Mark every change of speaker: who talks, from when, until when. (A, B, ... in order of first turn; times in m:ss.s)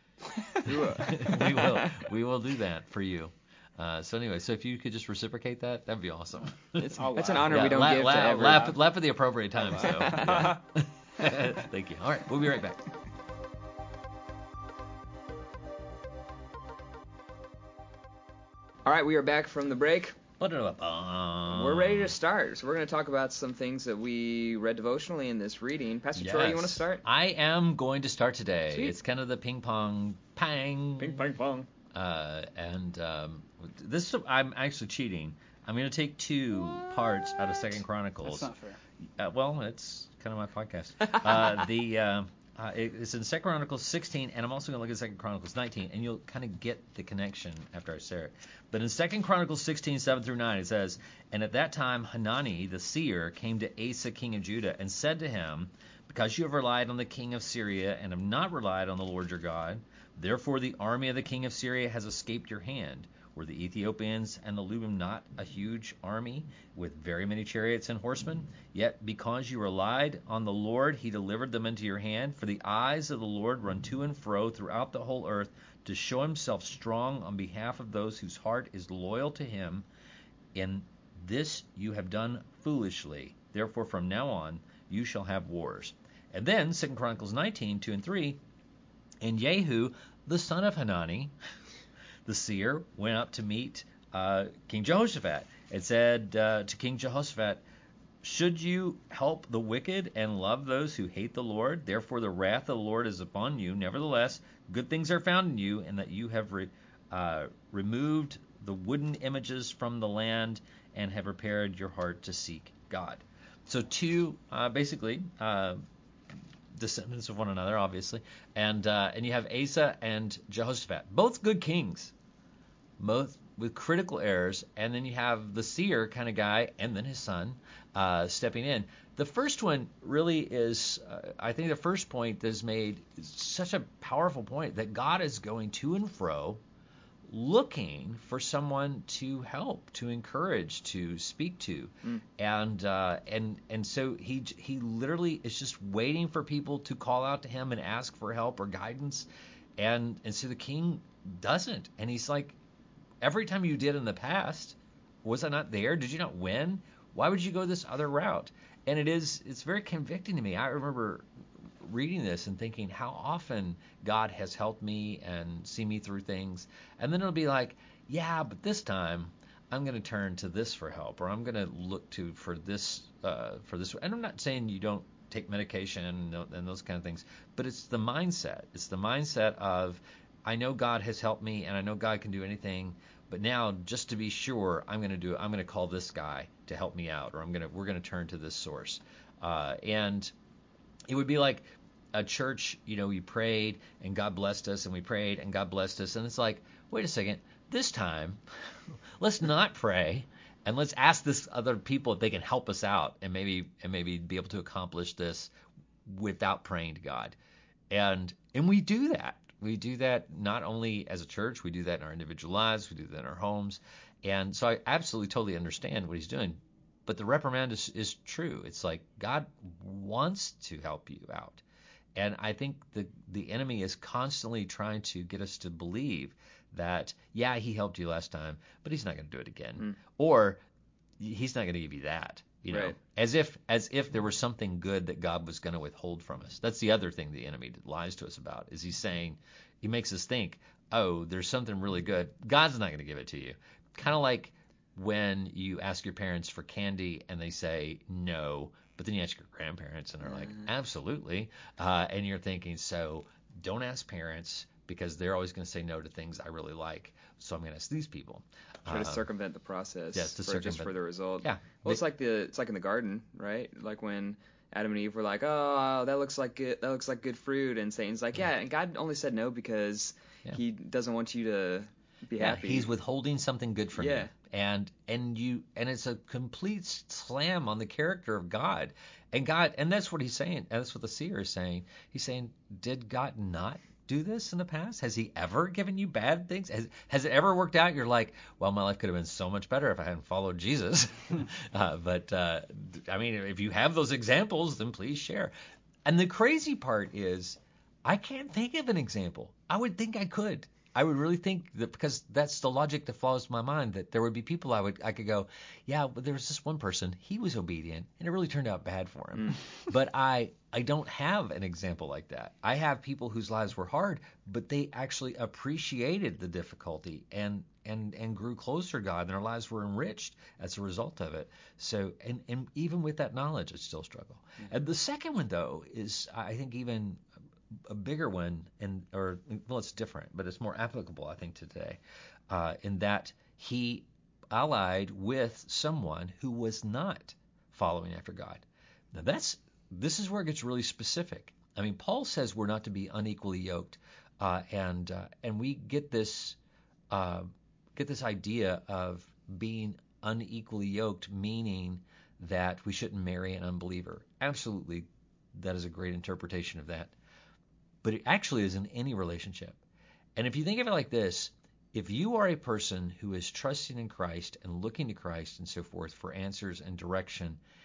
0:00.6-0:02.1 A
0:00.7-0:12.9 B
0:06.8-0:08.8 A
0:06.8-0:07.8 C
0:09.7-0:10.5 C
0:09.8-0:10.6 A
0:18.8-0:20.2 A
0:20.4-0:22.1 B
0:21.5-0:27.0 A
0:26.2-0:31.2 B
0:28.7-0:29.0 A
0:31.0-0:31.7 A
0:31.9-0:38.5 B
0:38.2-0:38.8 C
0:39.2-1:19.9 B
1:20.5-1:28.4 B
1:29.2-1:31.3 B
1:32.2-1:37.6 B
1:38.2-1:55.8 B
1:56.7-2:02.1 B
2:03.0-2:16.6 B
2:17.3-2:32.6 B
2:33.2-2:41.2 B
2:41.8-3:10.3 B
3:11.1-3:25.5 B
3:26.0-3:27.4 B
3:27.9-3:41.6 B
3:42.2-3:50.6 B
3:51.2-4:19.2 B
3:52.7-3:53.0 A
4:10.2-4:10.7 A
4:18.8-4:32.9 A
4:20.1-4:22.0 B
4:32.4-4:55.5 B
4:34.0-4:34.3 A
4:56.0-5:27.2 B
5:09.4-5:09.6 A
5:27.7-5:46.6 B
5:47.1-5:57.1 B
5:58.0-5:59.8 B
6:00.4-6:07.6 B